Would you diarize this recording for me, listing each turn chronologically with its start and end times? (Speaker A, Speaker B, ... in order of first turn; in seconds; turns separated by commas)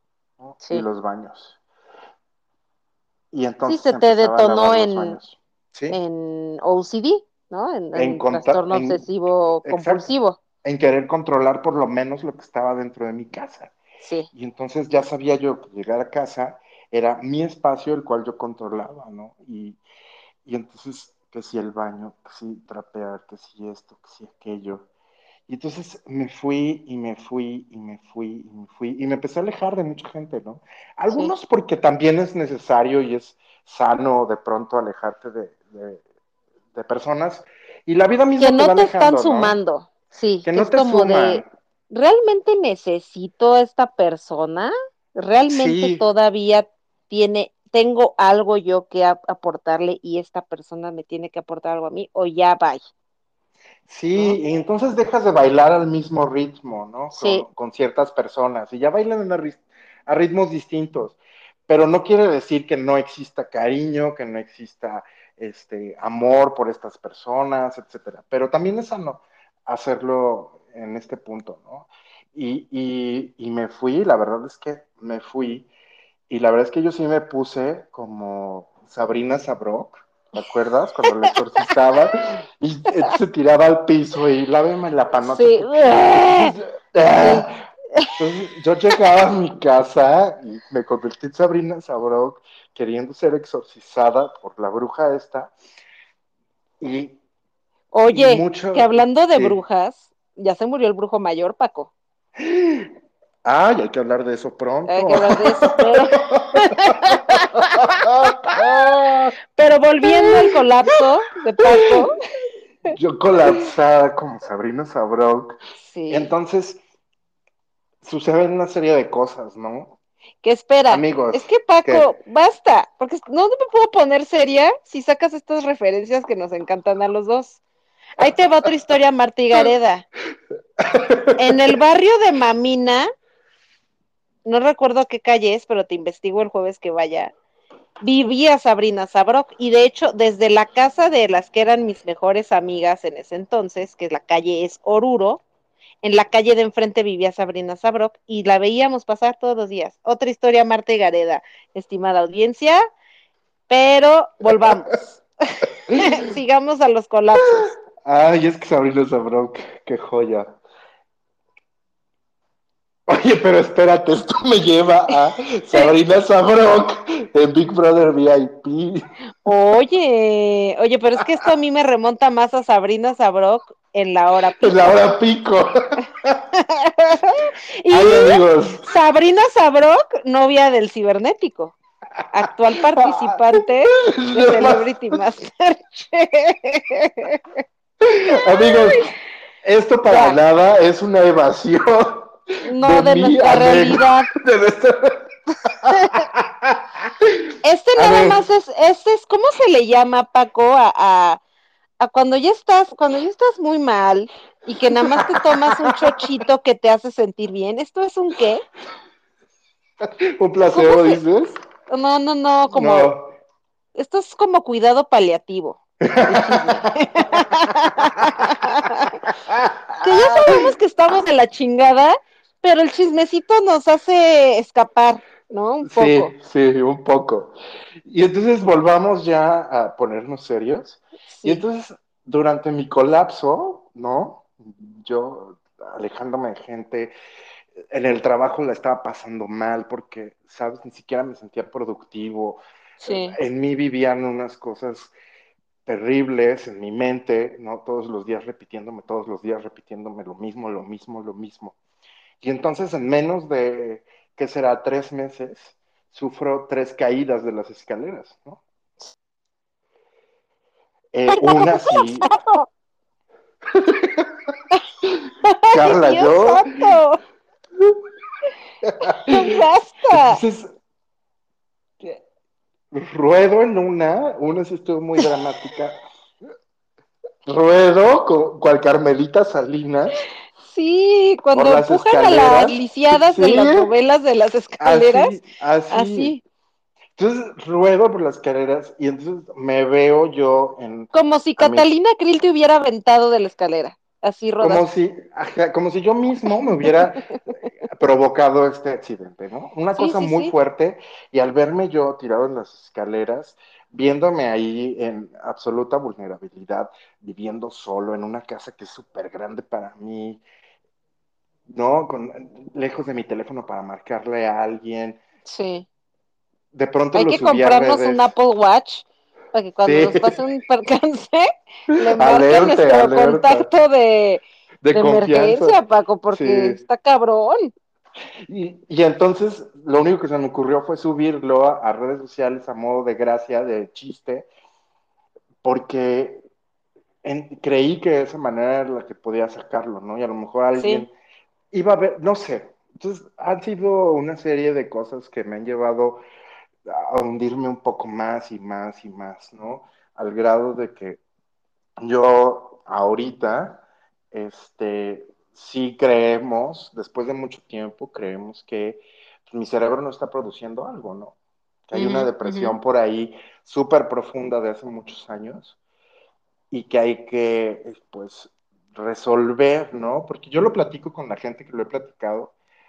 Speaker A: 0.4-1.6, Speaker A: 3.3-6.0, Speaker B: 3.7-5.2, Speaker B: 5.9-10.4, Speaker A: 7.9-9.1, Speaker A: 9.6-13.7, Speaker B: 14.0-14.3, Speaker A: 14.3-19.8, Speaker A: 20.4-24.9, Speaker A: 25.5-36.0, Speaker A: 36.7-39.6, Speaker B: 38.4-52.8, Speaker A: 40.4-41.4, Speaker A: 45.5-46.0, Speaker A: 53.9-75.7, Speaker B: 57.1-57.4, Speaker A: 76.3-87.6, Speaker B: 81.1-81.3, Speaker B: 85.2-86.6, Speaker B: 87.2-88.1, Speaker A: 88.2-95.5, Speaker A: 96.8-97.2, Speaker B: 97.9-101.9, Speaker A: 98.1-99.6, Speaker A: 102.4-102.9, Speaker A: 103.4-109.3, Speaker B: 104.9-107.7, Speaker B: 108.5-109.0, Speaker B: 109.5-112.2, Speaker A: 110.0-110.6, Speaker A: 111.6-112.0, Speaker A: 112.9-115.6, Speaker B: 115.9-116.3, Speaker A: 116.1-116.8, Speaker A: 118.0-120.0, Speaker B: 120.4-127.6, Speaker A: 120.9-122.1, Speaker B: 128.2-130.1, Speaker A: 130.8-131.6, Speaker B: 131.4-133.1, Speaker B: 134.4-137.3, Speaker B: 138.0-145.4, Speaker B: 146.0-152.8, Speaker B: 153.7-157.7, Speaker A: 157.5-160.6, Speaker A: 163.1-169.0, Speaker B: 169.4-175.0, Speaker A: 174.6-176.4, Speaker B: 176.8-181.8, Speaker A: 177.9-178.9, Speaker B: 182.3-187.4, Speaker A: 183.0-183.4, Speaker A: 183.9-185.2, Speaker A: 188.0-189.1, Speaker B: 188.3-189.1, Speaker A: 189.6-198.4, Speaker B: 190.1-190.4, Speaker B: 192.7-194.3, Speaker B: 195.9-196.2, Speaker B: 197.6-201.4, Speaker B: 202.0-208.6, Speaker A: 205.0-206.2, Speaker A: 210.0-211.6, Speaker B: 210.7-211.2, Speaker B: 211.9-213.1, Speaker A: 212.7-213.3, Speaker B: 213.9-219.2, Speaker A: 216.0-217.7, Speaker A: 219.2-220.7, Speaker B: 220.0-226.3, Speaker A: 225.8-237.1, Speaker B: 231.3-231.6, Speaker A: 237.9-245.1, Speaker B: 243.0-243.3, Speaker A: 245.8-251.8, Speaker A: 252.4-258.6, Speaker A: 261.1-262.3, Speaker B: 261.3-262.6, Speaker A: 263.7-264.3, Speaker B: 265.4-267.2, Speaker A: 265.7-266.6, Speaker A: 268.8-269.6, Speaker B: 269.0-270.4, Speaker A: 270.1-270.7, Speaker A: 272.9-276.0, Speaker A: 277.4-280.2, Speaker B: 280.6-286.4, Speaker A: 281.5-283.9, Speaker A: 284.8-286.3, Speaker A: 287.1-291.9, Speaker B: 291.1-294.8, Speaker A: 294.6-297.2, Speaker A: 297.9-310.4, Speaker B: 300.0-300.5, Speaker A: 311.7-315.2, Speaker B: 315.4-315.9, Speaker A: 316.7-318.3, Speaker B: 317.1-327.7, Speaker A: 319.8-320.4, Speaker A: 322.2-323.7, Speaker A: 324.8-325.8, Speaker A: 326.3-326.8, Speaker A: 328.4-334.5, Speaker A: 335.6-336.4, Speaker A: 337.2-341.1, Speaker B: 340.8-341.1, Speaker A: 341.7-346.2, Speaker A: 346.9-351.2, Speaker A: 352.0-361.3, Speaker A: 361.9-365.8, Speaker B: 361.9-362.7, Speaker A: 366.7-372.5